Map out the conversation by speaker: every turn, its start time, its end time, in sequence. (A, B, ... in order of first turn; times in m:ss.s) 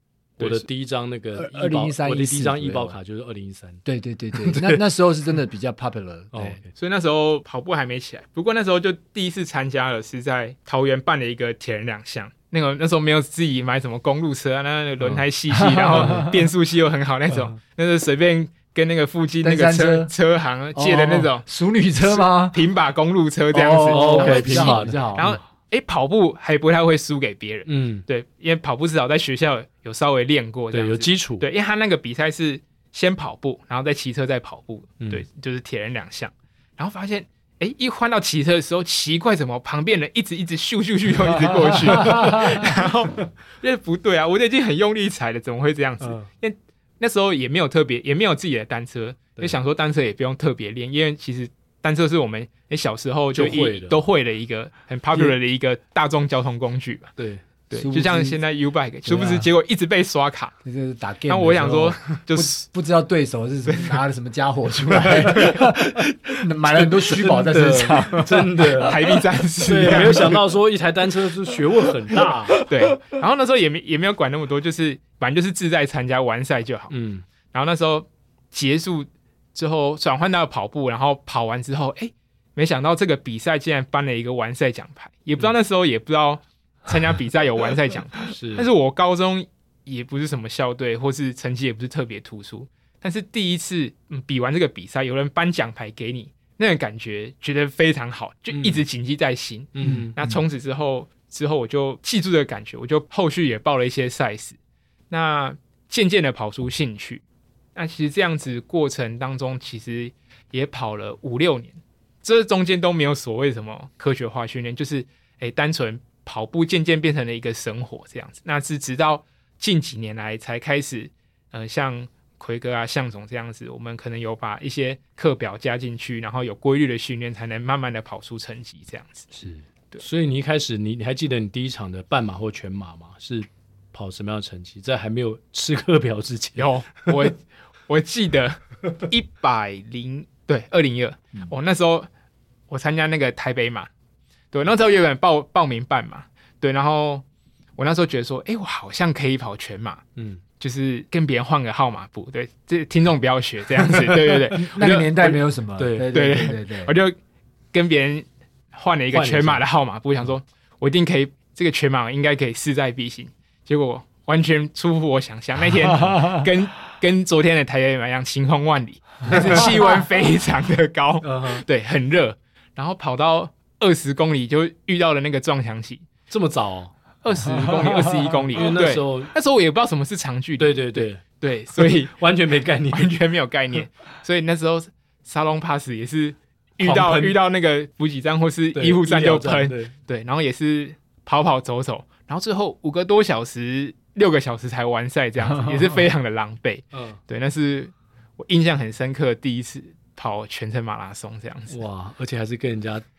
0:00.4-0:00.6 A
0:00.4-0:03.8 B
0:01.3-0:03.0 C
0:03.8-0:06.6 C
0:04.3-0:04.8 B
0:06.3-0:06.7 B
0:06.7-0:21.4 A
0:15.5-0:16.4 C
0:15.9-0:16.2 B
0:19.4-0:20.1 C
0:20.7-0:22.6 C
0:22.0-0:57.1 A
0:23.5-0:25.4 C
0:23.9-0:25.0 B
0:27.7-0:28.0 B
0:30.7-0:31.4 B
0:41.7-0:42.7 C
0:41.9-0:42.7 B
0:46.0-0:46.3 B
0:53.3-0:54.0 B
0:57.2-0:57.4 B
0:57.7-1:00.5 A
0:57.7-0:58.4 C
0:59.0-0:59.5 C
1:00.6-1:09.2 C
1:01.3-1:02.6 A
1:03.6-1:04.0 A
1:05.4-1:05.6 B
1:06.7-1:09.0 B
1:08.8-1:10.4 A
1:09.6-1:12.6 B
1:12.6-1:16.9 A
1:16.9-1:17.2 B
1:17.5-1:44.6 A
1:28.3-1:28.7 B
1:38.5-1:38.8 B
1:39.7-1:40.1 B
1:39.8-1:40.4 C
1:45.1-1:47.2 A
1:47.7-2:09.3 A
2:09.3-2:09.6 C
2:10.0-2:17.1 B
2:16.6-2:22.1 A
2:22.7-2:23.9 A
2:24.5-2:27.2 A
2:27.8-2:30.0 A
2:30.2-2:30.4 B
2:30.6-2:35.4 A
2:34.5-2:36.9 C
2:35.8-2:36.1 B
2:36.1-2:37.2 A
2:37.7-2:56.0 A
2:39.1-2:39.6 B
2:49.3-2:49.7 B
2:51.2-2:51.6 B
2:56.3-2:56.9 B
2:57.2-3:02.2 A
2:58.5-2:59.3 B
3:00.6-3:01.2 B
3:01.8-3:03.1 B
3:02.9-3:21.8 A
3:06.8-3:07.4 B
3:08.7-3:09.9 B
3:16.9-3:17.2 B
3:21.7-3:23.0 B